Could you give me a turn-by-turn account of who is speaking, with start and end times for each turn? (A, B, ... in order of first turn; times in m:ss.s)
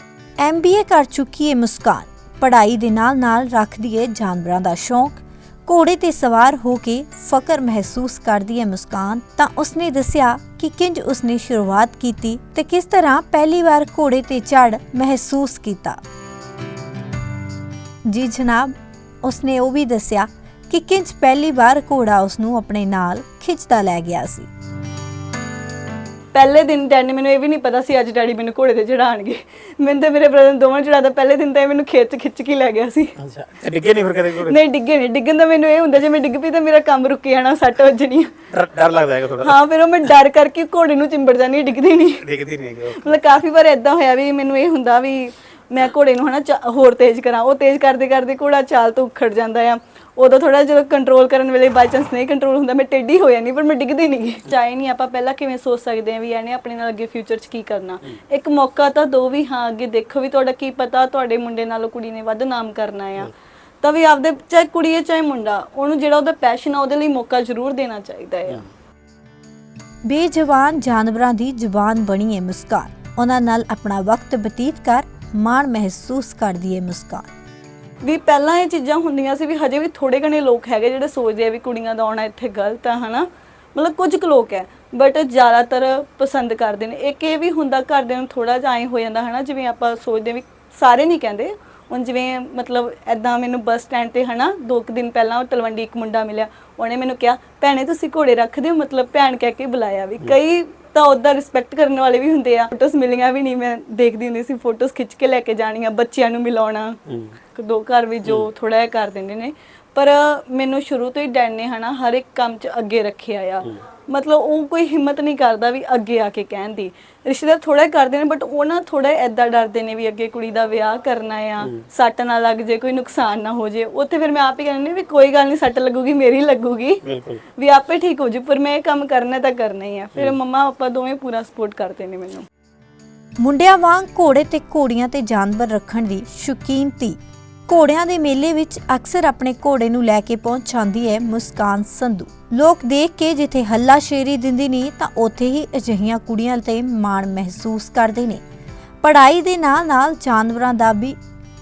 0:00.4-0:16.0 A
0:18.1-0:24.5 A
0:26.3-0:33.1 B
0:33.2-0:34.6 C
0:34.4-0:38.4 B
0:38.5-0:39.6 C
0:39.4-0:42.2 B
0:42.2-0:43.1 C
0:42.9-1:03.3 B
1:03.8-1:08.6 B
1:10.0-1:17.3 A
1:18.0-1:47.0 B
1:47.1-1:47.3 C
1:47.5-2:12.4 B
2:07.0-2:07.4 C
2:13.4-2:28.4 A
2:29.0-2:31.2 A